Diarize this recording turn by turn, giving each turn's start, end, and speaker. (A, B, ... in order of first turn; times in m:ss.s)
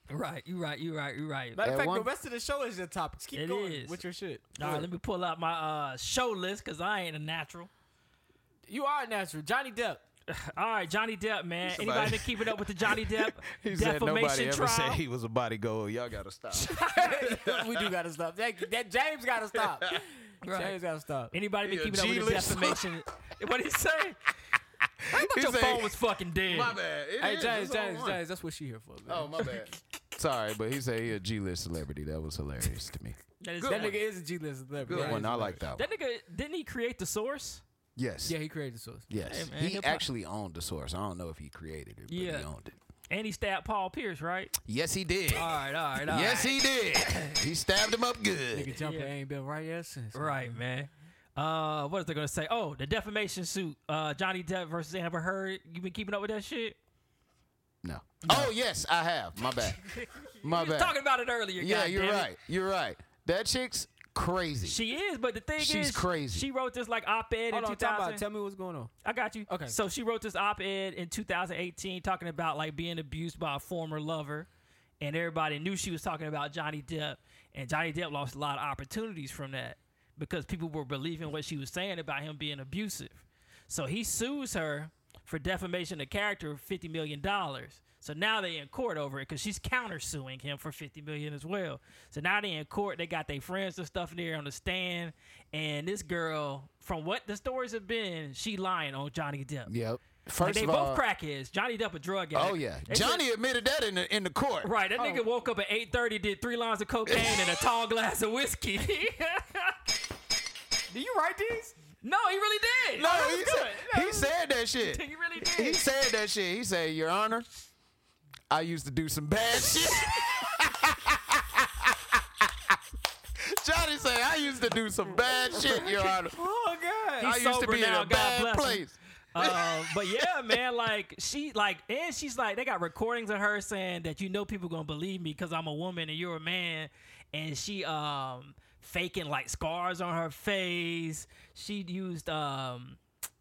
0:00.1-0:01.6 A
0:01.6-0:04.4 B
0:01.6-0:02.1 C
0:03.3-0:04.0 A
0:04.6-0:07.7 A
0:04.6-0:04.9 C
0:08.7-0:10.0 B
0:10.3-0:15.0 A
0:11.6-0:17.9 C
0:16.6-0:21.3 B
0:16.8-0:17.2 A
0:19.5-0:20.0 C
0:20.4-0:20.8 A
0:21.3-0:24.2 A
0:21.6-0:22.8 C
0:25.1-0:26.8 A
0:25.1-0:28.2 C
0:27.2-0:29.5 B
0:29.1-0:34.0 C
0:33.4-0:34.0 A
0:33.6-0:35.6 B
0:34.8-0:35.9 C
0:34.9-0:37.6 A
0:38.0-0:38.3 C
0:38.2-0:39.1 B
0:39.1-0:42.8 C
0:39.2-0:40.0 A
0:42.1-0:42.5 A
0:43.1-0:44.6 A
0:44.6-0:45.5 C
0:45.3-0:47.4 A
0:46.0-0:48.8 C
0:48.5-0:50.4 B
0:48.8-0:49.1 A
0:50.1-0:56.8 A
0:57.8-1:01.0 C
0:58.2-0:58.5 A
0:59.5-1:02.3 A
1:01.6-1:04.8 C
1:04.6-1:08.2 A
1:05.6-1:06.5 C
1:07.5-1:08.9 B
1:09.0-1:14.5 A
1:09.5-1:09.7 B
1:15.0-1:39.7 A
1:39.7-1:41.0 C
1:40.4-1:43.2 A
1:42.3-1:44.7 C
1:44.6-1:49.8 A
1:45.0-1:45.2 B
1:47.1-1:47.6 C
1:50.9-1:51.8 B
1:52.0-1:53.1 A
1:53.0-1:57.4 C
1:53.0-1:54.3 B
1:54.8-1:55.8 A
1:58.5-2:02.8 C
2:03.4-2:06.4 C
2:06.3-2:07.4 B
2:07.2-2:08.8 A
2:07.2-2:10.3 C
2:09.3-2:23.0 A